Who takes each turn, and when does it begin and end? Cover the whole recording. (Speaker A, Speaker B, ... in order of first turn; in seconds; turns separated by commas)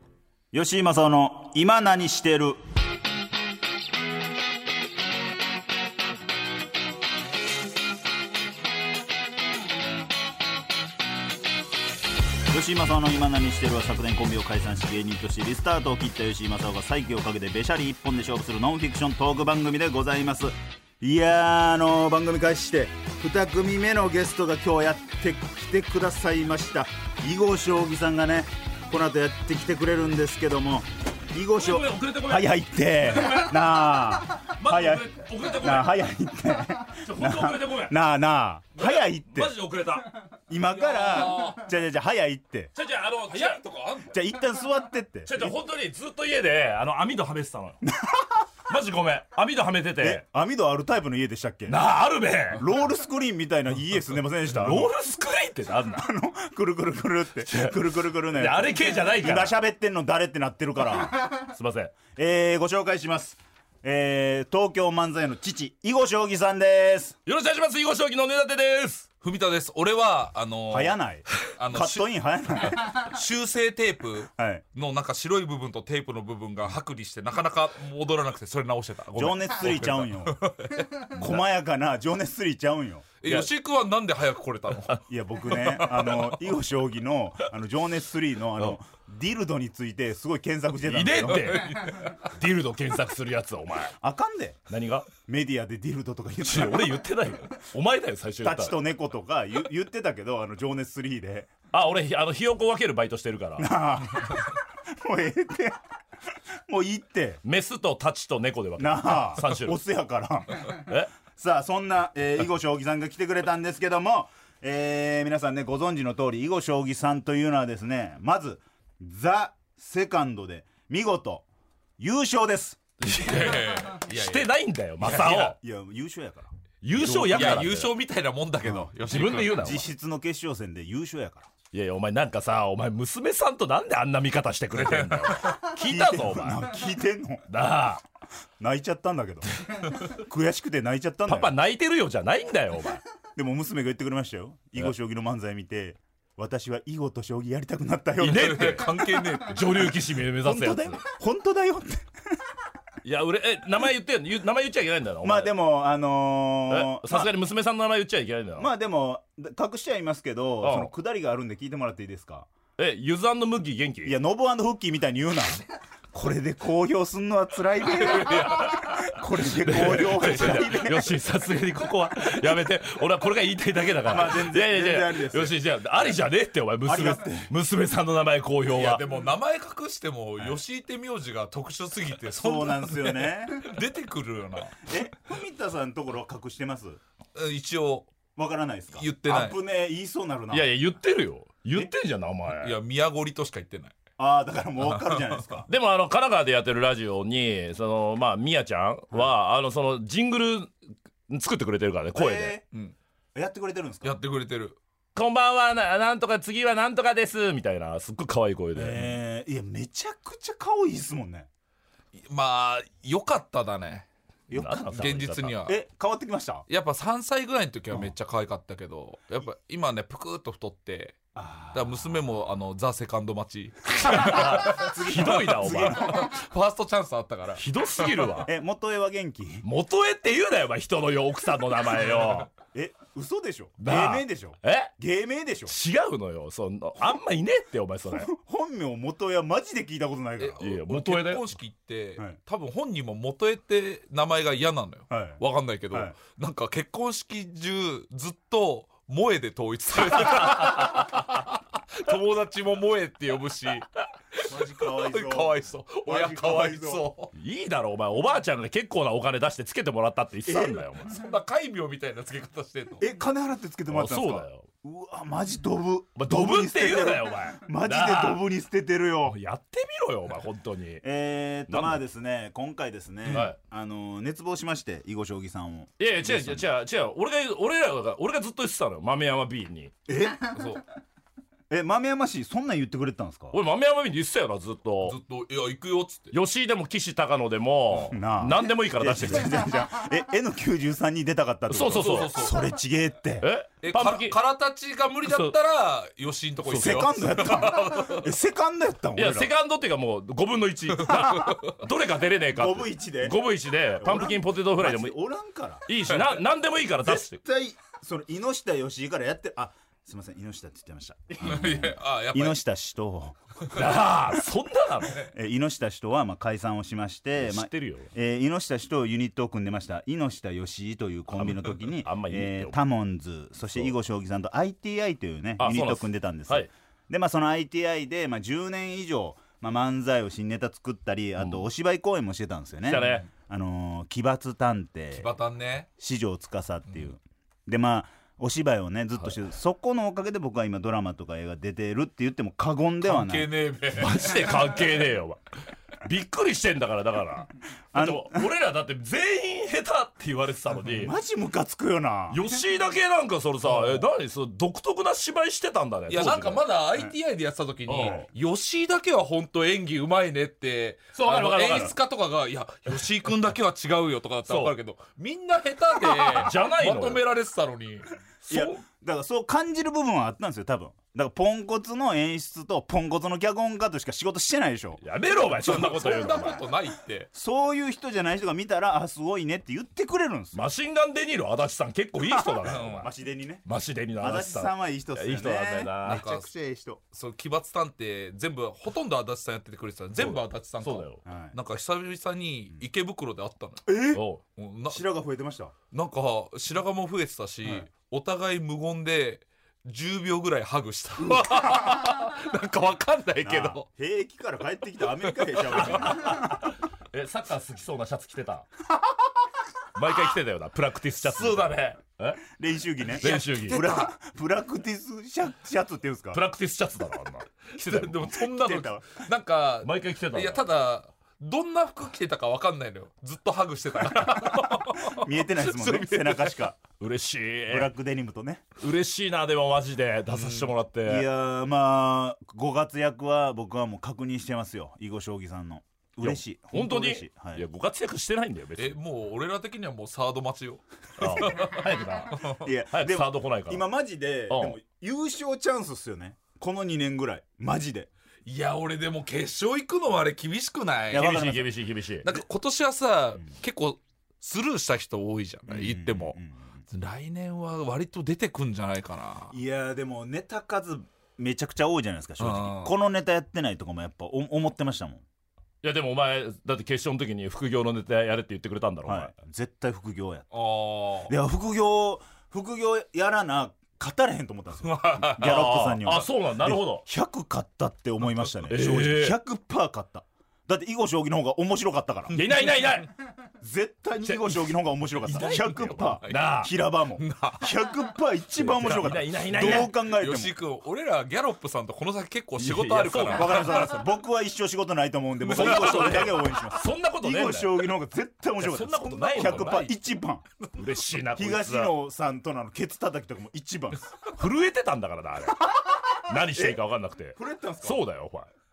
Speaker A: 0.5-2.6, Speaker A: 12.5-39.5, Speaker B: 31.5-33.7, Speaker B: 34.5-36.0, Speaker B: 37.0-38.0, Speaker B: 38.8-40.3, Speaker A: 40.5-42.7, Speaker C: 40.7-41.6, Speaker B: 42.7-43.6, Speaker C: 43.3-44.2, Speaker A: 44.1-45.5, Speaker B: 45.3-47.8, Speaker A: 47.8-48.4, Speaker B: 48.7-50.2, Speaker A: 50.0-51.8, Speaker B: 51.7-52.7, Speaker A: 52.5-54.9, Speaker B: 54.5-56.0, Speaker A: 55.7-61.3, Speaker B: 57.4-59.5, Speaker B: 61.5-61.9, Speaker A: 62.1-67.2, Speaker B: 67.2-69.1, Speaker C: 69.2-71.0, Speaker A: 70.7-73.1, Speaker C: 71.5-81.1, Speaker A: 74.4-74.6, Speaker A: 79.1-80.4, Speaker A: 81.1-83.1, Speaker C: 83.2-86.3, Speaker A: 85.1-91.6, Speaker B: 90.8-94.0, Speaker C: 91.3-92.2, Speaker A: 94.0-94.6, Speaker B: 94.7-95.1, Speaker A: 95.2-97.0, Speaker B: 96.4-98.8, Speaker A: 98.4-101.5, Speaker B: 101.7-103.7, Speaker A: 103.6-105.8, Speaker A: 106.7-107.4, Speaker B: 107.4-109.8, Speaker A: 108.8-121.4, Speaker B: 110.7-111.1, Speaker A: 122.0-122.8, Speaker B: 123.0-125.6, Speaker C: 123.1-125.5, Speaker A: 125.3-126.5, Speaker B: 126.8-127.9, Speaker C: 126.9-129.8, Speaker A: 128.6-128.9, Speaker B: 129.0-129.8, Speaker A: 129.5-131.5, Speaker B: 131.7-136.8, Speaker C: 134.7-135.7, Speaker A: 135.7-137.5, Speaker B: 137.5-138.0, Speaker A: 138.6-141.5, Speaker B: 141.2-143.0, Speaker A: 143.3-149.1, Speaker B: 148.2-151.0, Speaker C: 148.2-149.9, Speaker A: 150.4-152.1, Speaker B: 153.0-155.5, Speaker A: 155.2-157.3, Speaker B: 156.7-158.7, Speaker A: 158.6-162.5, Speaker B: 160.6-160.9, Speaker B: 162.8-164.2, Speaker A: 164.0-165.6, Speaker A: 166.1-171.2, Speaker C: 168.0-168.7, Speaker B: 168.2-179.0, Speaker C: 169.8-170.7, Speaker A: 174.0-175.6, Speaker A: 176.8-177.5, Speaker C: 178.7-184.9, Speaker A: 182.3-183.8, Speaker A: 184.8-187.0, Speaker C: 187.3-188.1, Speaker A: 188.3-190.7, Speaker C: 188.9-189.6, Speaker B: 190.5-192.8, Speaker C: 192.5-194.0, Speaker A: 194.2-195.7, Speaker C: 194.8-195.6, Speaker B: 195.7-200.7, Speaker B: 201.3-202.6, Speaker A: 202.1-202.6, Speaker A: 203.3-204.2, Speaker C: 204.0-204.8, Speaker B: 205.1-209.1, Speaker A: 208.7-211.5, Speaker C: 212.2-214.1, Speaker A: 214.5-214.9, Speaker B: 214.5-215.6, Speaker C: 214.8-215.8, Speaker A: 215.6-216.6, Speaker C: 216.7-221.2, Speaker A: 221.3-222.2, Speaker C: 221.7-228.3, Speaker B: 224.0-226.3, Speaker A: 224.2-226.3, Speaker B: 227.6-228.5, Speaker A: 228.4-229.6, Speaker B: 229.6-232.5, Speaker A: 232.7-235.7, Speaker B: 233.8-234.9, Speaker B: 235.7-238.3, Speaker A: 238.1-240.7, Speaker C: 240.4-257.3, Speaker B: 240.6-241.4, Speaker A: 245.1-246.1, Speaker B: 250.3-251.1, Speaker A: 254.4-257.0, Speaker B: 257.3-261.2, Speaker A: 260.4-260.9, Speaker C: 261.0-263.0, Speaker A: 263.0-269.4, Speaker B: 263.9-264.6, Speaker B: 266.1-268.4, Speaker B: 269.2-271.0, Speaker A: 271.0-276.7, Speaker B: 271.7-272.0, Speaker B: 273.3-273.6, Speaker B: 276.0-279.9, Speaker A: 280.1-280.6, Speaker C: 280.5-280.8, Speaker A: 281.7-283.6, Speaker B: 283.5-285.2, Speaker C: 285.0-286.3, Speaker B: 286.3-289.6, Speaker A: 288.0-293.5, Speaker B: 291.7-292.4, Speaker C: 291.9-292.6, Speaker B: 293.4-294.4, Speaker C: 293.8-298.3, Speaker B: 295.2-295.5, Speaker A: 296.6-299.5, Speaker B: 299.1-305.1, Speaker C: 300.9-301.7, Speaker A: 302.5-303.4, Speaker A: 304.0-305.9, Speaker B: 305.9-307.4, Speaker A: 307.0-313.4, Speaker C: 311.4-312.6, Speaker B: 313.7-315.3, Speaker A: 315.2-335.3, Speaker B: 317.4-318.1, Speaker B: 321.4-322.8, Speaker B: 325.6-326.7, Speaker B: 331.4-331.6, Speaker B: 332.9-333.3, Speaker C: 335.1-335.9, Speaker A: 336.0-343.5, Speaker C: 343.0-344.6, Speaker B: 343.9-345.4, Speaker B: 346.0-351.1, Speaker A: 347.9-348.5, Speaker A: 350.9-352.4, Speaker B: 352.3-356.7, Speaker C: 353.6-354.1, Speaker C: 356.1-368.1, Speaker B: 357.9-358.2, Speaker A: 358.0-358.2, Speaker B: 361.1-361.9, Speaker B: 364.4-364.7, Speaker B: 366.1-367.2, Speaker B: 368.4-368.8, Speaker A: 368.5-375.0, Speaker B: 375.0-376.6, Speaker C: 375.5-377.3, Speaker A: 377.3-380.6, Speaker B: 380.5-383.1, Speaker C: 382.6-383.1, Speaker A: 382.6-383.6, Speaker B: 383.6-386.2, Speaker A: 384.2-387.0, Speaker C: 386.0-386.5, Speaker C: 387.1-393.9, Speaker B: 390.2-391.2, Speaker A: 391.2-391.6, Speaker A: 393.9-394.2, Speaker B: 394.1-394.4, Speaker C: 394.6-395.1, Speaker A: 394.9-395.7, Speaker C: 395.9-403.8, Speaker A: 403.4-406.6, Speaker C: 405.2-405.8, Speaker B: 405.7-408.6, Speaker B: 409.9-412.4, Speaker C: 411.3-411.9, Speaker A: 412.5-416.4, Speaker B: 413.1-414.0, Speaker C: 413.2-414.1, Speaker B: 416.3-418.1, Speaker C: 417.8-426.6, Speaker A: 418.2-419.2, Speaker B: 419.8-420.6, Speaker A: 425.0-426.8, Speaker B: 427.0-427.9, Speaker A: 427.7-428.6, Speaker B: 428.8-431.2, Speaker C: 430.4-430.7, Speaker A: 431.0-437.6, Speaker B: 436.2-438.9, Speaker C: 438.8-442.7, Speaker B: 441.2-442.4, Speaker A: 442.6-448.1, Speaker B: 442.9-443.8, Speaker B: 444.5-444.8, Speaker C: 448.4-451.3, Speaker A: 451.1-451.8, Speaker B: 451.1-452.3, Speaker C: 452.2-456.4, Speaker A: 455.7-456.7, Speaker C: 456.9-459.5, Speaker A: 459.5-465.2, Speaker C: 462.4-462.9, Speaker B: 465.8-469.3, Speaker A: 469.1-470.5, Speaker C: 470.5-471.3, Speaker A: 471.2-482.3, Speaker C: 474.8-476.2, Speaker B: 475.4-477.0, Speaker B: 478.7-479.4, Speaker C: 482.3-483.0, Speaker B: 482.3-483.1, Speaker A: 483.6-490.6, Speaker B: 484.2-484.7, Speaker B: 485.2-486.7, Speaker C: 486.2-486.5, Speaker C: 487.1-487.9, Speaker B: 488.6-489.9, Speaker C: 489.5-494.0, Speaker B: 492.6-493.9, Speaker A: 493.1-500.4, Speaker C: 495.4-496.5, Speaker B: 495.6-497.9, Speaker B: 498.6-499.9, Speaker C: 499.5-499.8, Speaker B: 500.7-501.9, Speaker A: 501.3-504.2, Speaker B: 504.3-508.5, Speaker A: 505.7-506.8, Speaker A: 507.4-508.0